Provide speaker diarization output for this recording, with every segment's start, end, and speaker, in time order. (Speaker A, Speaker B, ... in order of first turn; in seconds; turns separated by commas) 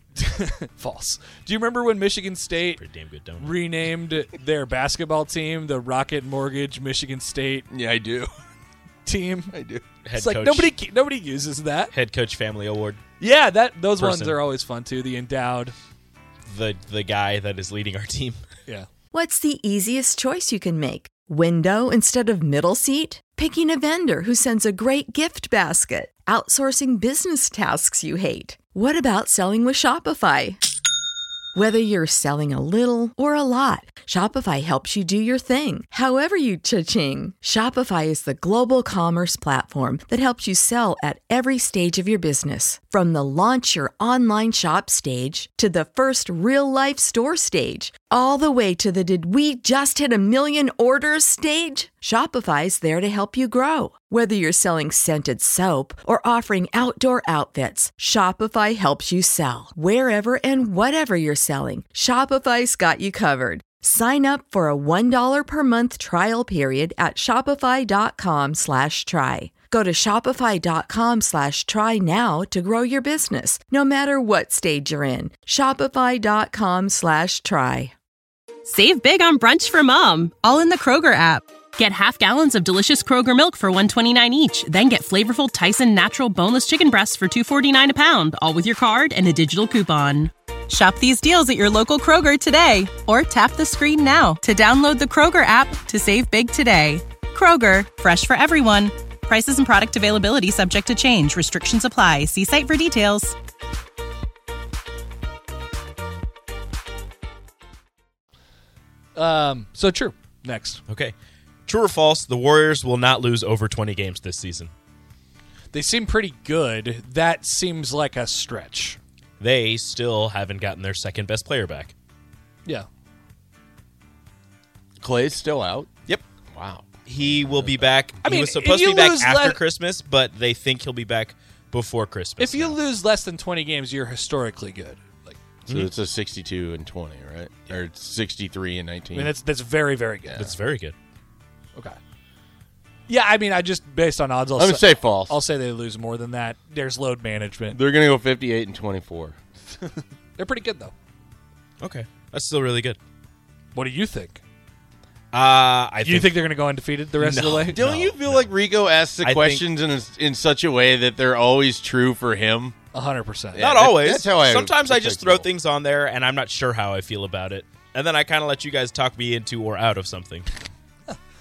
Speaker A: 0.2-2.8, Speaker B: 2.8-3.6, Speaker A: 3.4-7.7, Speaker C: 7.7-8.3, Speaker A: 9.1-9.5, Speaker C: 9.5-9.9, Speaker B: 10.1-10.7, Speaker A: 10.2-11.9, Speaker B: 11.9-13.0, Speaker A: 13.2-15.8, Speaker B: 14.0-14.4, Speaker B: 16.5-18.4, Speaker D: 19.1-30.6, Speaker D: 31.6-77.9, Speaker E: 78.7-103.4, Speaker A: 109.2-110.8, Speaker B: 110.9-111.2, Speaker B: 111.7-114.7, Speaker A: 115.7-119.0, Speaker B: 119.4-121.9, Speaker C: 125.0-125.9, Speaker C: 126.5-127.9, Speaker B: 127.0-132.8, Speaker A: 128.2-129.6, Speaker A: 132.4-135.4, Speaker C: 135.7-139.3, Speaker A: 139.1-140.4, Speaker B: 140.3-140.9, Speaker A: 143.1-147.8, Speaker C: 144.6-145.4, Speaker C: 147.7-149.4, Speaker A: 150.4-150.9, Speaker B: 151.8-153.0, Speaker A: 153.7-154.4, Speaker B: 155.3-156.4, Speaker A: 156.0-157.8, Speaker B: 157.2-158.5, Speaker C: 157.7-162.8, Speaker B: 159.2-159.7, Speaker A: 162.9-163.7, Speaker C: 163.6-165.5, Speaker B: 163.6-170.5